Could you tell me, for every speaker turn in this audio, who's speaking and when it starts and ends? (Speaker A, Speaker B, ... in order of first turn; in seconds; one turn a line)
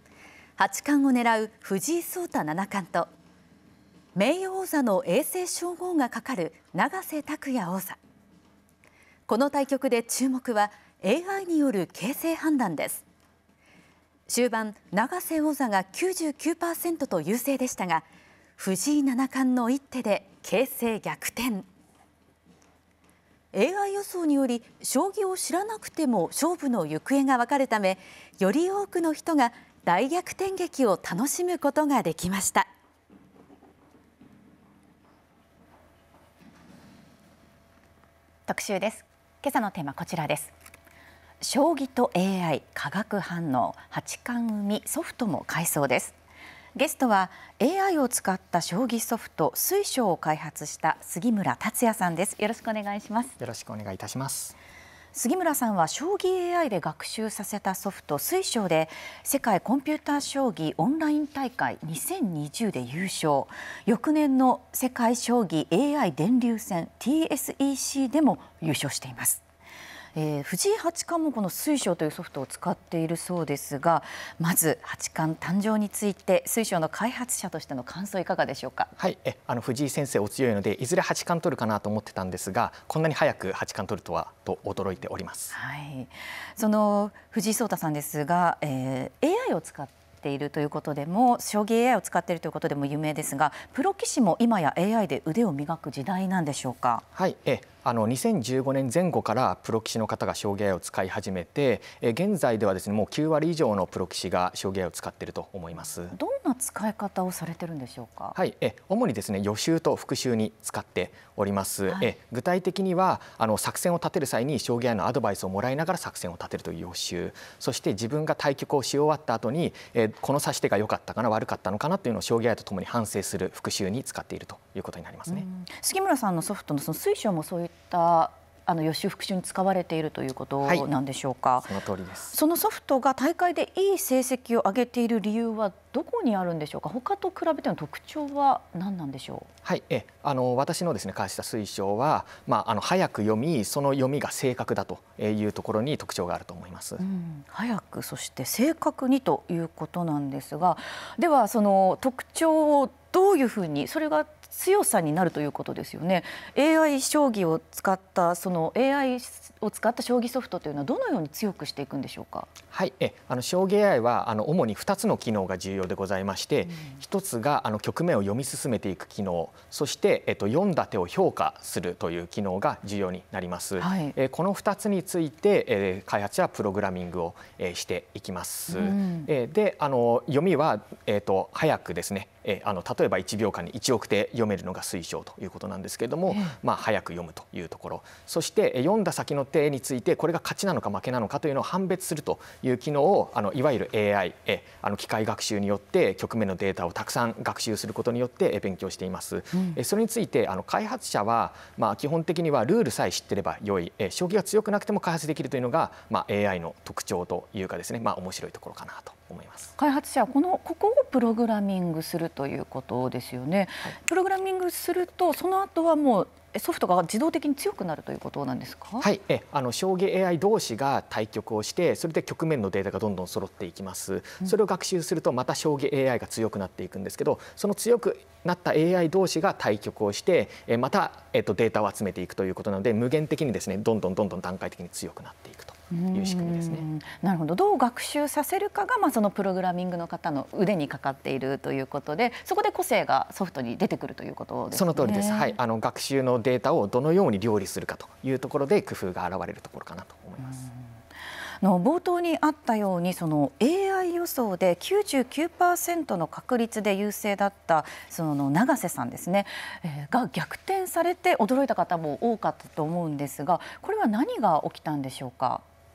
Speaker A: 0.6-3.1
Speaker A: 4.2-8.0
Speaker A: 9.3-12.9
Speaker B: 10.9-11.4
Speaker B: 12.0-13.0
Speaker A: 14.3-18.0
Speaker B: 15.8-17.7
Speaker A: 18.6-21.6
Speaker B: 19.4-20.2
Speaker B: 21.2-21.6
Speaker A: 23.5-32.7
Speaker B: 38.5-40.5
Speaker B: 41.4-46.1
Speaker B: 46.8-53.3
Speaker C: 53.4-54.5
Speaker B: 55.1-69.4
Speaker B: 70.2-78.9
Speaker C: 79.0-85.6
Speaker B: 85.5-97.0
Speaker C: 97.2-106.2
Speaker B: 106.1-108.4
Speaker C: 108.4-125.5
Speaker B: 125.3-131.7
Speaker C: 131.7-132.3
Speaker B: 132.3-139.5
Speaker C: 139.7-147.0
Speaker B: 147.0-162.5
Speaker C: 162.7-209.7
Speaker B: 173.8-174.2
Speaker B: 178.7-179.3
Speaker B: 209.8-219.1
Speaker C: 219.0-236.9
Speaker B: 235.9-245.6
Speaker C: 244.7-250.7
Speaker B: 251.6-265.6